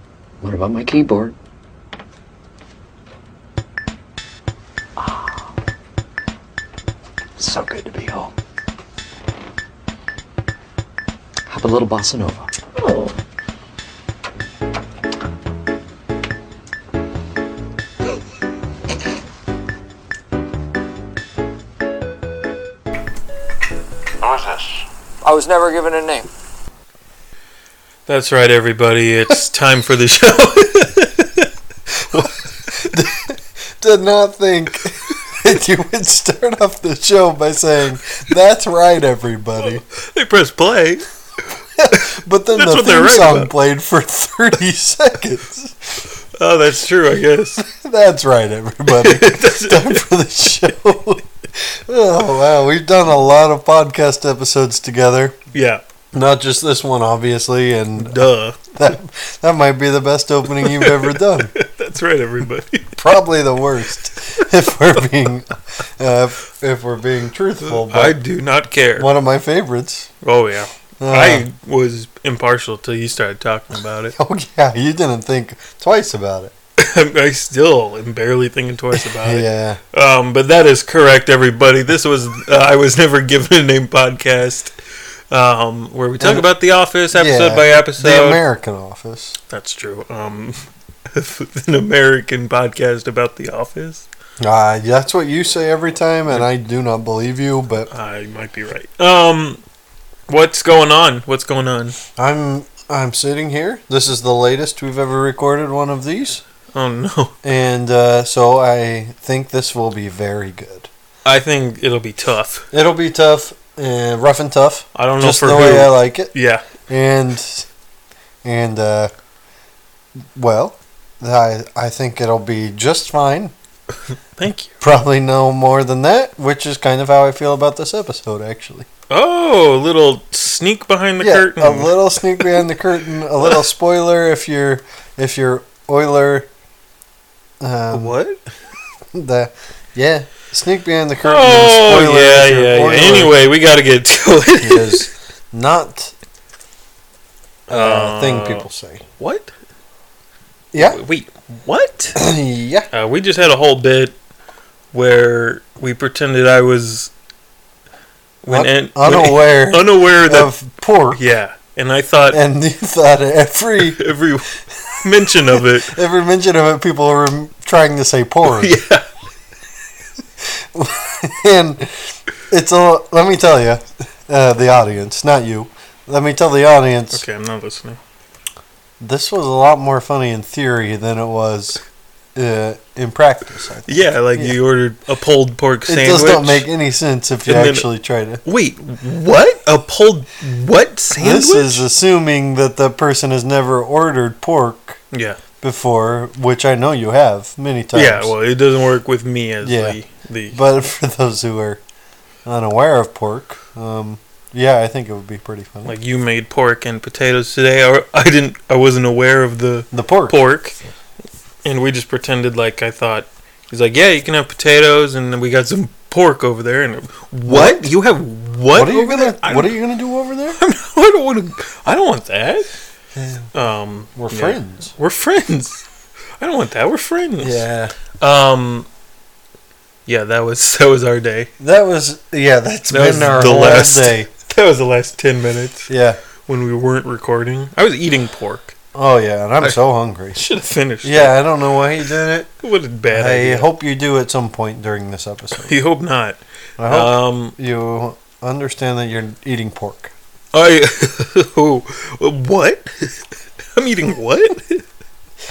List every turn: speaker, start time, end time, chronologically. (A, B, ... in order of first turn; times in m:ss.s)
0:00.4-0:01.3 A
0:05.0-0:05.5 A
0:07.4-0:08.3 A
0:11.5-0:12.6 A
0:24.2-0:26.2 A
0:28.1-0:33.0 B
0:32.7-0:39.8 C
0:39.7-0:41.0 B
0:41.8-0:46.0 C
0:41.9-0:43.5 B
0:46.4-0:47.6 B
0:47.6-0:55.4 C
0:48.9-0:50.0 B
0:55.5-0:55.8 B
0:56.1-1:01.5 C
0:58.0-0:58.6 B
1:00.6-1:03.0 B
1:03.0-1:08.2 C
1:07.6-1:09.1 B
1:09.0-1:10.1 C
1:10.2-1:14.2 B
1:11.0-1:11.5 C
1:14.2-1:16.5 C
1:16.8-1:24.7 B
1:18.9-1:19.8 C
1:25.3-1:28.4 B
1:26.2-1:26.5 C
1:27.1-1:29.4 C
1:29.5-1:34.1 B
1:34.4-1:37.9 C
1:37.9-1:39.6 B
1:40.3-1:42.0 B
1:42.2-1:46.4 C
1:46.7-1:47.4 B
1:47.4-1:50.9 C
1:51.2-1:52.7 B
1:52.7-1:56.3 C
1:55.0-1:56.6 B
1:56.9-1:57.7 C
1:58.4-1:59.1 C
2:00.4-2:03.5 C
2:04.4-2:04.8 B
2:04.8-2:08.9 C
2:09.1-2:12.7 B
2:11.2-2:16.5 C
2:17.6-2:18.2 C
2:17.9-2:18.4 B
2:19.1-2:23.4 C
2:21.2-2:25.1 B
2:24.6-2:26.2 C
2:27.7-2:28.7 B
2:27.7-2:29.0 C
2:29.2-2:29.5 B
2:30.7-2:31.0 C
2:30.8-2:32.2 B
2:32.2-2:32.9 C
2:32.9-2:34.2 B
2:34.9-2:37.1 B
2:38.4-2:40.5 B
2:38.5-2:41.2 C
2:41.1-2:42.4 B
2:42.3-2:44.1 C
2:43.9-2:46.0 B
2:44.8-2:48.8 C
2:48.4-2:49.1 B
2:50.4-2:57.2 C
2:57.1-2:58.0 B
2:59.0-3:01.8 C
3:02.3-3:04.6 C
3:03.9-3:06.7 B
3:05.9-3:08.4 C
3:07.5-3:07.9 B
3:08.4-3:11.8 B
3:11.2-3:15.0 C
3:15.1-3:15.4 B
3:15.6-3:18.3 C
3:17.9-3:20.6 B
3:19.6-3:20.0 C
3:20.5-3:21.8 C
3:22.5-3:26.0 C
3:25.8-3:30.8 B
3:29.9-3:30.4 C
3:31.6-3:39.8 B
3:37.5-3:37.9 C
3:38.7-3:40.6 C
3:40.6-3:42.7 B
3:43.2-3:43.5 C
3:43.5-3:45.8 B
3:44.2-3:44.9 C
3:46.4-3:47.7 B
3:47.4-3:47.9 C
3:48.2-3:48.9 B
3:50.1-3:51.5 B
3:51.6-3:54.3 C
3:52.9-3:55.9 B
3:55.9-3:56.2 C
3:56.5-3:58.8 B
3:58.9-4:00.4 C
4:00.4-4:01.4 B
4:01.0-4:02.5 C
4:02.6-4:03.7 B
4:03.1-4:05.8 C
4:05.6-4:07.6 B
4:06.8-4:10.1 C
4:10.5-4:14.8 B